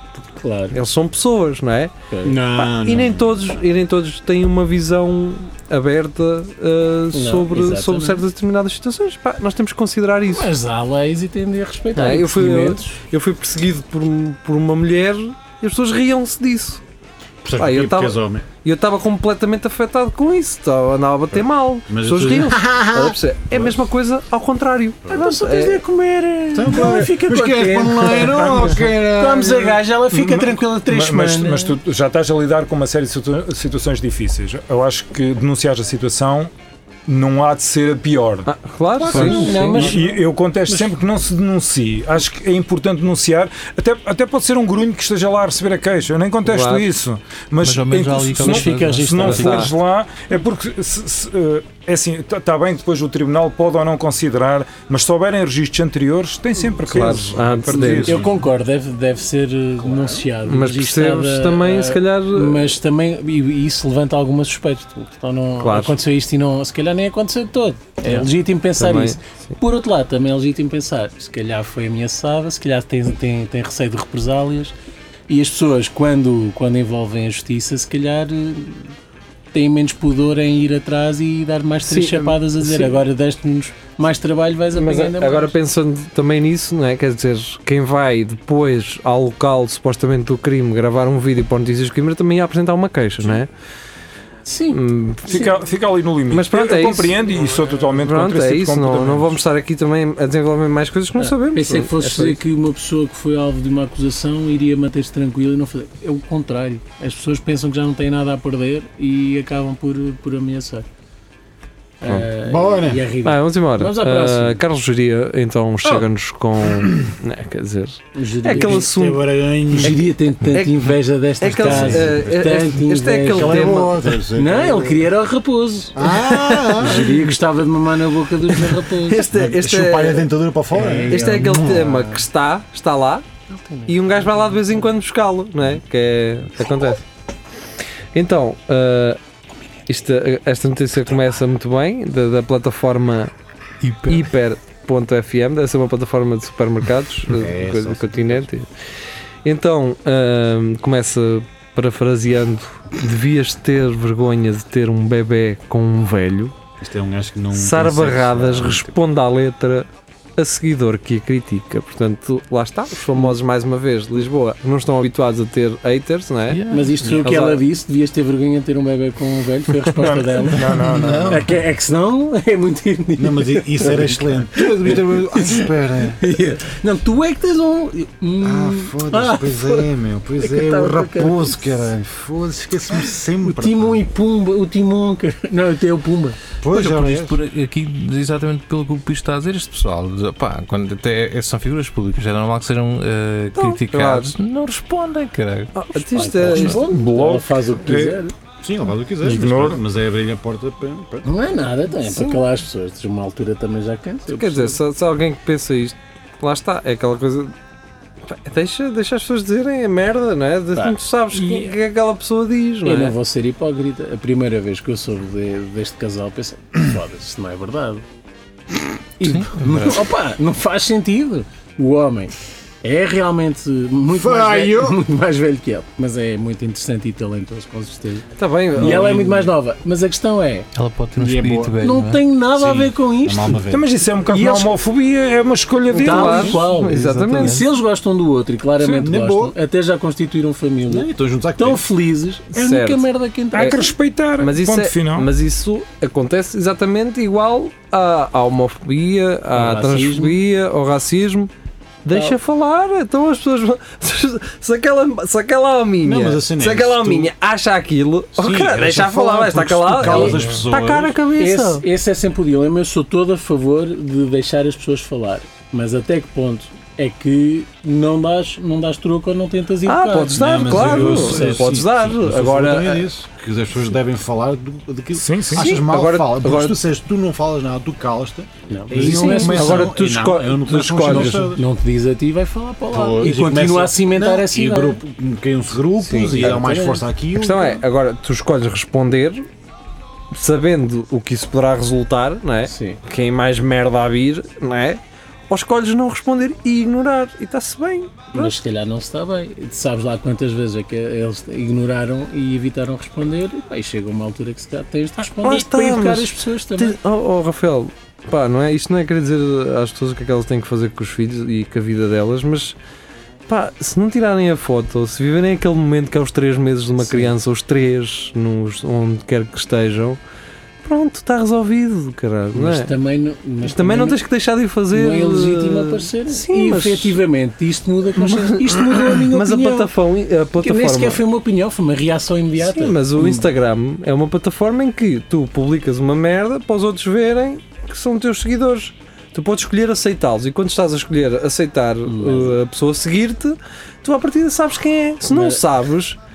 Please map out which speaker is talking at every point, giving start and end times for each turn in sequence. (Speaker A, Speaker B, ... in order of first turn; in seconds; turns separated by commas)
Speaker A: 0.3-0.8, Speaker B: 0.7-10.5, Speaker A: 2.1-2.5, Speaker C: 2.2-3.4, Speaker A: 7.1-8.2, Speaker A: 10.3-13.0, Speaker B: 11.9-16.8, Speaker C: 17.4-18.4, Speaker B: 17.5-25.8, Speaker C: 21.9-23.8, Speaker A: 25.1-31.8, Speaker C: 26.5-29.8, Speaker D: 30.1-36.5, Speaker D: 37.0-38.5, Speaker B: 38.5-39.9, Speaker C: 39.0-39.9, Speaker E: 39.1-39.8, Speaker A: 39.1-40.9, Speaker D: 39.2-58.3, Speaker B: 46.5-46.9, Speaker E: 47.6-49.7, Speaker A: 48.3-49.7, Speaker B: 49.2-49.7, Speaker C: 56.8-58.4, Speaker B: 56.9-58.2, Speaker A: 57.8-74.7, Speaker C: 59.8-60.2, Speaker B: 60.4-62.7, Speaker B: 65.6-66.0, Speaker B: 68.0-69.2, Speaker A: 75.3-78.9, Speaker A: 79.5-85.5, Speaker B: 81.8-83.0, Speaker B: 84.7-93.5, Speaker A: 94.4-95.5, Speaker B: 94.7-95.5, Speaker D: 95.3-99.4, Speaker B: 96.3-97.2, Speaker B: 97.9-102.4, Speaker A: 101.2-110.8, Speaker A: 112.0-114.6, Speaker C: 112.4-113.0, Speaker B: 113.2-119.2, Speaker A: 118.1-118.9, Speaker C: 118.7-120.0, Speaker A: 119.8-129.3, Speaker B: 120.5-120.9, Speaker B: 121.4-124.0, Speaker C: 121.6-122.3, Speaker C: 123.3-125.0, Speaker C: 125.9-127.3, Speaker B: 126.2-127.0, Speaker B: 128.6-130.3, Speaker C: 129.3-131.8, Speaker A: 130.7-132.2, Speaker B: 131.1-133.2, Speaker A: 133.5-134.8, Speaker B: 133.9-137.0, Speaker B: 138.1-139.2, Speaker B: 139.9-143.3, Speaker E: 143.8-144.3, Speaker B: 144.1-148.7, Speaker C: 147.3-148.5, Speaker B: 149.4-156.6, Speaker C: 156.8-159.0, Speaker B: 157.5-167.6, Speaker E: 166.5-167.1, Speaker A: 166.7-179.9, Speaker D: 170.0-171.4, Speaker E: 170.9-171.3, Speaker C: 171.0-171.3, Speaker C: 173.2-176.2, Speaker C: 178.4-184.1, Speaker A: 180.4-181.7, Speaker A: 183.4-186.4, Speaker C: 186.6-187.4, Speaker E: 186.7-196.6, Speaker B: 193.5-194.3, Speaker B: 195.7-196.8, Speaker A: 196.1-198.3, Speaker D: 196.6-198.2, Speaker C: 198.6-201.3, Speaker D: 199.2-199.8, Speaker A: 201.2-204.8, Speaker B: 204.3-207.5, Speaker B: 208.2-213.1, Speaker A: 210.7-211.7, Speaker A: 212.8-218.0, Speaker A: 219.2-230.7, Speaker E: 219.2-220.0, Speaker C: 224.1-225.0, Speaker B: 228.4-229.3, Speaker E: 230.7-232.2, Speaker C: 231.2-231.8, Speaker A: 231.8-233.6, Speaker C: 232.6-233.9, Speaker D: 233.7-236.6, Speaker A: 234.3-234.7, Speaker A: 235.9-243.9, Speaker B: 235.9-237.6, Speaker E: 236.7-237.7, Speaker D: 238.8-239.1, Speaker C: 239.0-239.5, Speaker C: 240.9-241.8, Speaker B: 242.5-243.9, Speaker D: 243.5-245.3, Speaker B: 244.4-251.5, Speaker A: 249.5-250.4, Speaker B: 252.0-261.8, Speaker A: 252.1-252.3, Speaker C: 256.0-257.3, Speaker C: 258.3-261.2, Speaker A: 260.0-260.4, Speaker A: 261.3-271.7, Speaker B: 269.8-273.1, Speaker C: 270.3-281.6, Speaker D: 275.1-275.7, Speaker B: 275.5-276.8, Speaker A: 278.7-279.9, Speaker B: 278.9-281.5, Speaker A: 281.0-285.0, Speaker C: 282.9-287.8, Speaker B: 286.0-286.6, Speaker A: 286.3-287.1, Speaker B: 287.3-289.4, Speaker B: 290.3-298.5, Speaker A: 292.6-293.0, Speaker A: 298.3-307.0, Speaker B: 305.4-312.8, Speaker B: 313.5-320.2, Speaker A: 317.0-317.3, Speaker B: 320.8-322.9, Speaker A: 322.5-324.2, Speaker B: 323.6-327.2, Speaker A: 324.9-329.9, Speaker B: 328.2-331.2, Speaker A: 330.6-333.5, Speaker B: 332.6-346.2, Speaker A: 342.1-342.6, Speaker A: 345.2-345.6